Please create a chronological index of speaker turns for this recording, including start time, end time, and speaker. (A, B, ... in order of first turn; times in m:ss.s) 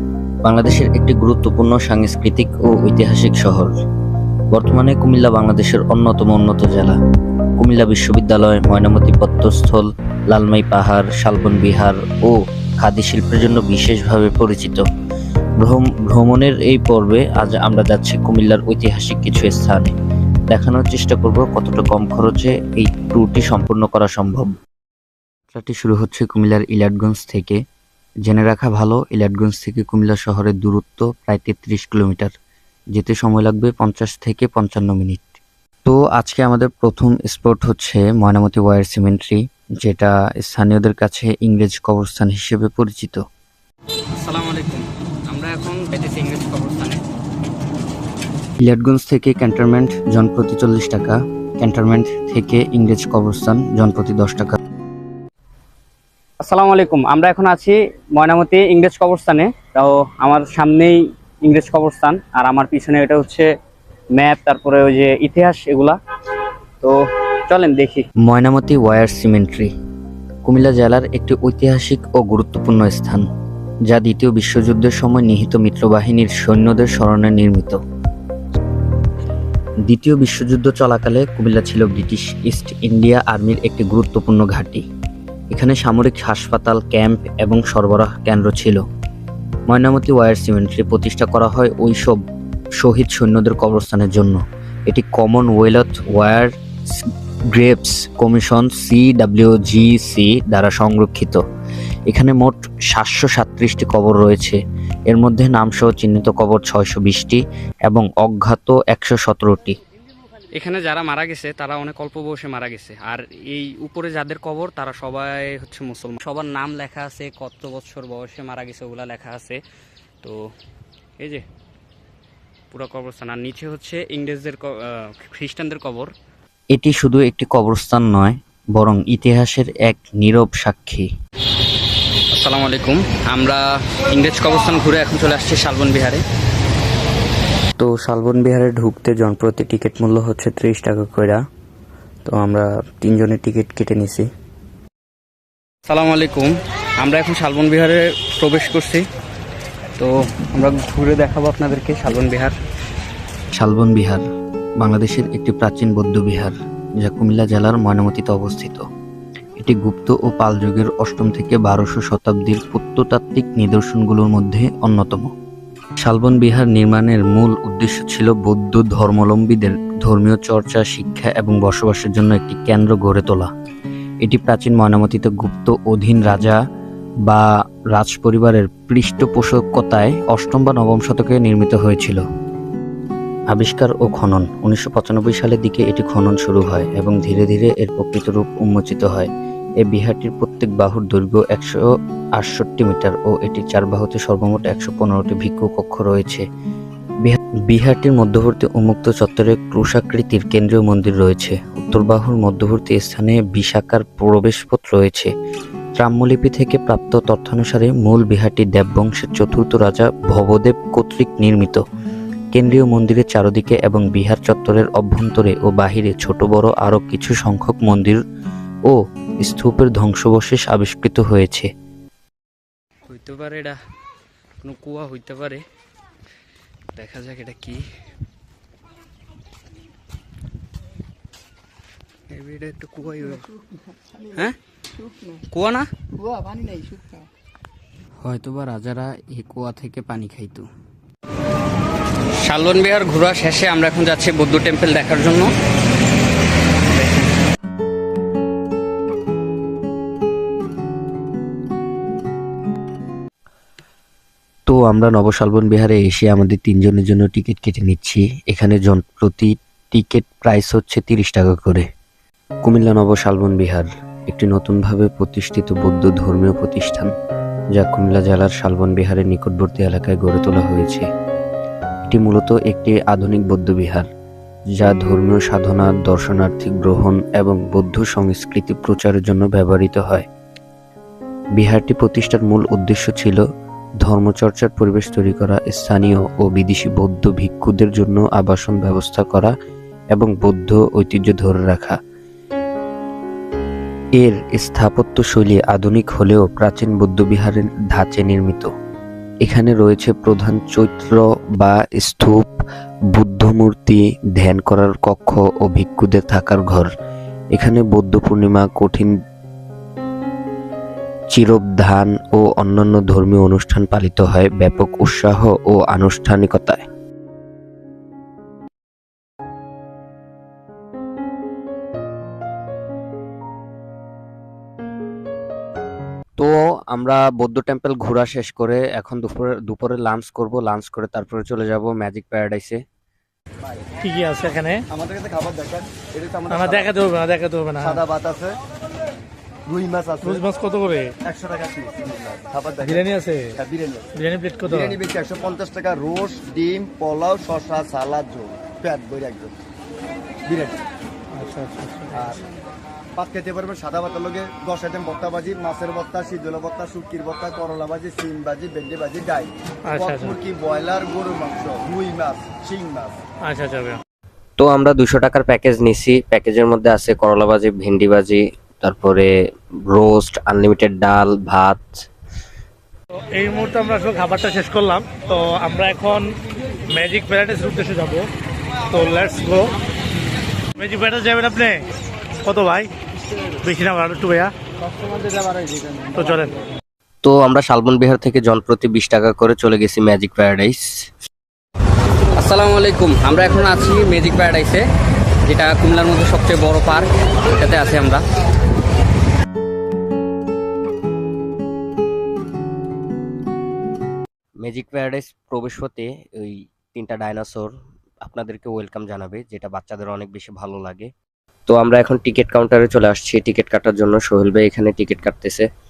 0:00.4-0:03.7 A
0:04.5-0:07.0 A
0:07.6-0:14.8 A
0:15.6-0:19.9 A
0:20.5-0:24.5 A
0:25.5-0:27.6 A
0:28.2-0:32.3 A
0:32.9-0:43.2 A
0:44.2-0:47.0 B
0:48.6-0:54.6 A
0:56.5-1:03.5 B
1:04.1-1:06.0 B
1:07.5-1:08.0 B
1:08.2-1:09.7 A
1:10.4-1:13.2 A
1:13.9-1:17.8 A
1:19.9-1:24.8 A
1:25.5-1:28.8 A
1:29.7-1:32.2 A
1:32.8-1:36.5 A
1:37.5-1:41.4 A
1:42.1-1:44.6 A
1:45.1-1:49.8 A
1:50.6-1:59.6 B
2:02.7-2:06.1 B
2:06.7-2:11.1 A
2:12.3-2:16.2 B
2:17.8-2:21.4 A
2:22.2-2:24.3 A
2:25.9-2:29.0 B
2:30.0-2:32.5 B
2:33.5-2:34.2 A
2:34.8-2:38.8 A
2:39.6-2:45.3 A
2:46.0-2:53.5 A
2:54.2-2:56.6 A
2:57.3-3:02.2 A
3:03.5-3:09.3 A
3:09.8-3:11.8 A
3:12.4-3:16.4 A
3:17.2-3:25.3 A
3:26.0-3:31.8 A
3:32.5-3:38.2 A
3:38.9-3:41.7 A
3:43.1-3:43.8 B
3:44.6-3:45.6 B
3:46.9-3:47.8 B
3:52.3-3:53.5 B
3:55.5-3:55.9 B
3:58.2-4:00.7 B
4:02.4-4:05.5 B
4:14.7-4:21.8 A
4:22.6-4:27.1 A
4:27.8-4:31.0 A
4:32.1-4:34.1 A
4:34.8-4:40.2 A
4:41.6-4:43.4 A
4:44.0-4:49.5 A
4:50.1-4:52.0 A
4:54.2-4:58.7 A
4:59.4-5:02.5 A
5:03.1-5:06.9 A
5:07.5-5:09.1 A
5:11.3-5:16.8 A
5:26.4-5:32.8 A
5:34.0-5:34.8 C
5:34.9-5:37.0 D
5:36.5-5:38.0 C
5:37.8-5:38.6 D
5:39.7-5:40.4 D
5:40.2-5:41.1 C
5:41.2-5:44.1 D
5:42.9-5:43.5 C
5:44.2-5:44.9 C
5:44.7-5:49.6 D
5:50.5-5:50.8 D
5:51.4-5:52.2 C
5:52.2-5:52.5 D
5:53.2-6:03.2 D
5:59.9-6:00.4 C
6:03.4-6:04.0 C
6:04.6-6:09.3 A
6:09.9-6:11.8 A
6:13.2-6:16.3 C
6:16.9-6:18.3 C
6:18.9-6:19.7 C
6:20.8-6:21.8 C
6:22.4-6:22.9 C
6:23.6-6:24.5 C
6:25.1-6:26.6 C
6:27.2-6:30.8 A
6:32.3-6:34.8 B
6:35.5-6:38.2 B
6:44.7-6:46.0 A
6:47.0-6:47.7 A
6:48.3-6:51.1 A
6:51.7-6:55.6 A